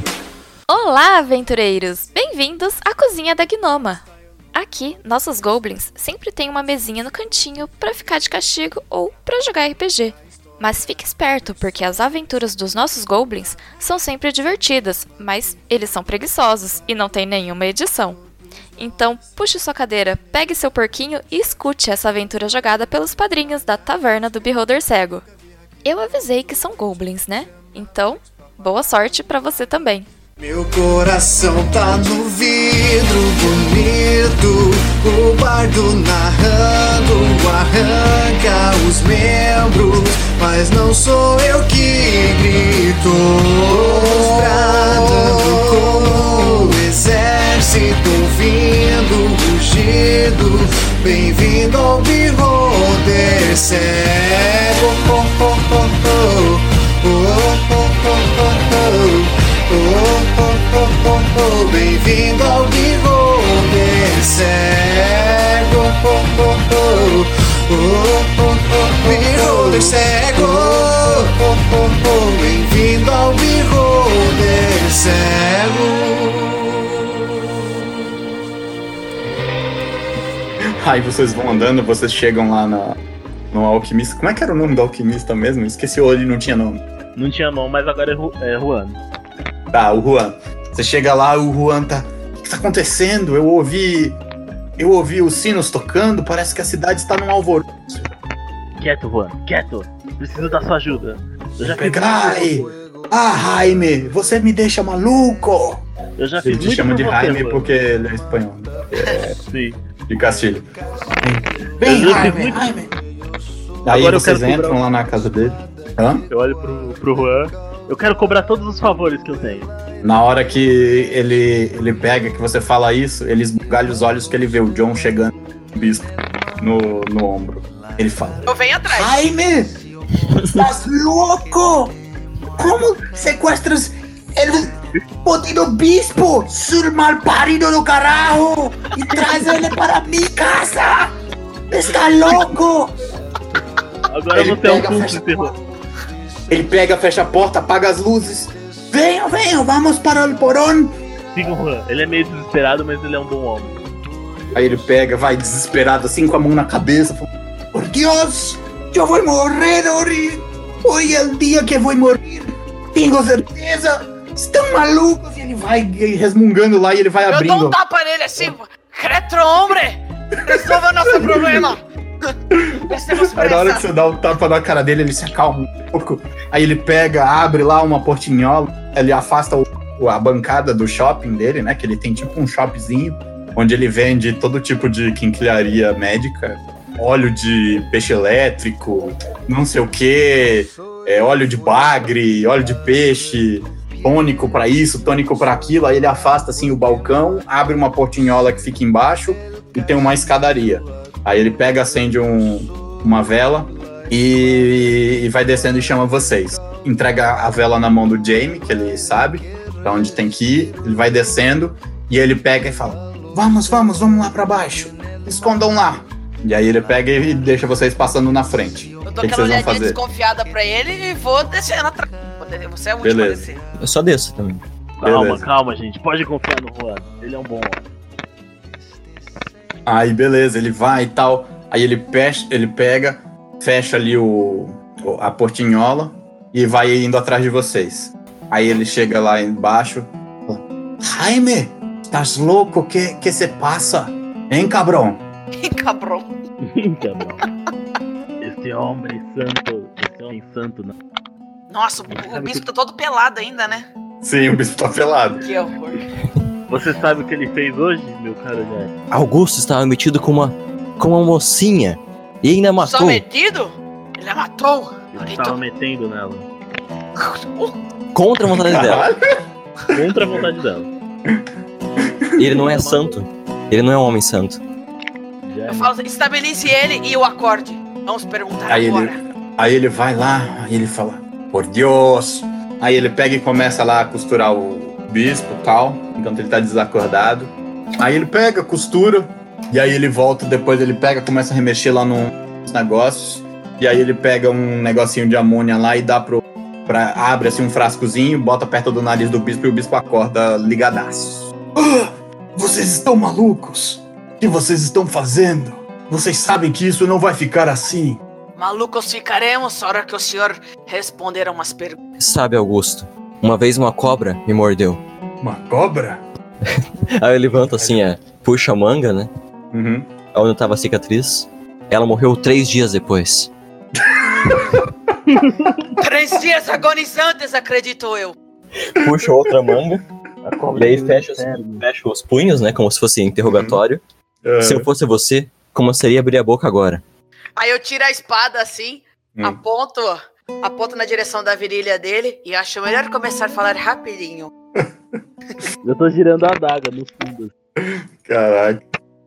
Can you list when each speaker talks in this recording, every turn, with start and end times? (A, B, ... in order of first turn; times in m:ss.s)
0:00.7-0:18.2 A
0:18.8-0:25.2 A
0:25.8-0:30.1 A
0:30.4-1:17.1 B
0:43.7-0:46.8 C
1:09.0-1:11.2 C
1:20.6-1:23.0 C
1:23.5-1:26.8 C
1:27.2-1:29.0 D
1:29.7-1:34.2 C
1:34.8-1:38.1 C
1:38.8-1:42.7 D
1:41.6-1:45.8 C
1:46.2-1:47.6 D
1:46.4-1:49.4 C
1:49.5-1:49.8 D
1:50.1-1:50.7 C
1:51.2-1:52.9 C
1:51.8-1:52.7 D
1:53.8-1:56.2 C
1:53.9-1:54.8 D
1:56.3-1:59.7 D
2:00.0-2:09.7 C
2:08.5-2:09.2 E
2:10.4-2:12.0 C
2:12.6-2:21.2 C
2:21.7-2:23.0 C
2:24.1-2:25.5 D
2:24.3-2:25.5 C
2:26.5-2:30.9 C
2:31.4-2:33.8 D
2:34.5-2:47.8 C
2:47.3-2:53.8 E
2:50.4-2:51.7 C
2:52.5-3:40.0 C
3:39.0-3:43.6 E
3:43.0-3:43.5 C
3:43.8-3:44.6 F
3:45.0-3:47.8 D
3:45.0-3:45.4 C
3:49.9-4:05.2 C
4:05.6-4:06.3 E
4:06.6-4:07.4 D
4:08.4-4:11.0 D
4:11.7-4:13.9 E
4:12.1-4:12.6 D
4:14.2-4:15.4 C
4:15.4-4:16.0 E
4:16.7-4:18.9 D
4:19.1-4:23.2 F
4:22.8-4:25.6 E
4:25.1-4:26.5 D
4:27.2-4:27.8 E
4:28.1-4:29.1 F
4:28.4-4:29.2 C
4:29.9-4:30.9 D
4:32.0-4:32.6 C
4:32.4-4:34.6 F
4:32.5-4:33.2 D
4:35.5-4:35.9 D
4:35.7-4:39.2 E
4:38.7-5:08.2 C
5:08.6-5:12.0 E
5:12.2-5:15.0 F
5:15.4-5:16.2 C
5:16.6-5:19.3 F
5:17.5-5:18.0 C
5:19.7-5:20.1 C
5:20.3-5:23.5 F
5:24.0-5:24.9 C
5:25.3-5:25.8 D
5:26.0-5:28.4 E
5:28.9-5:30.0 F
5:29.0-5:29.8 C
5:30.4-5:31.8 D
5:30.8-5:34.0 F
5:33.4-5:33.8 C
5:34.4-5:34.9 C
5:34.6-5:37.0 F
5:37.6-5:44.5 E
5:45.8-5:47.5 D
5:47.8-5:48.8 C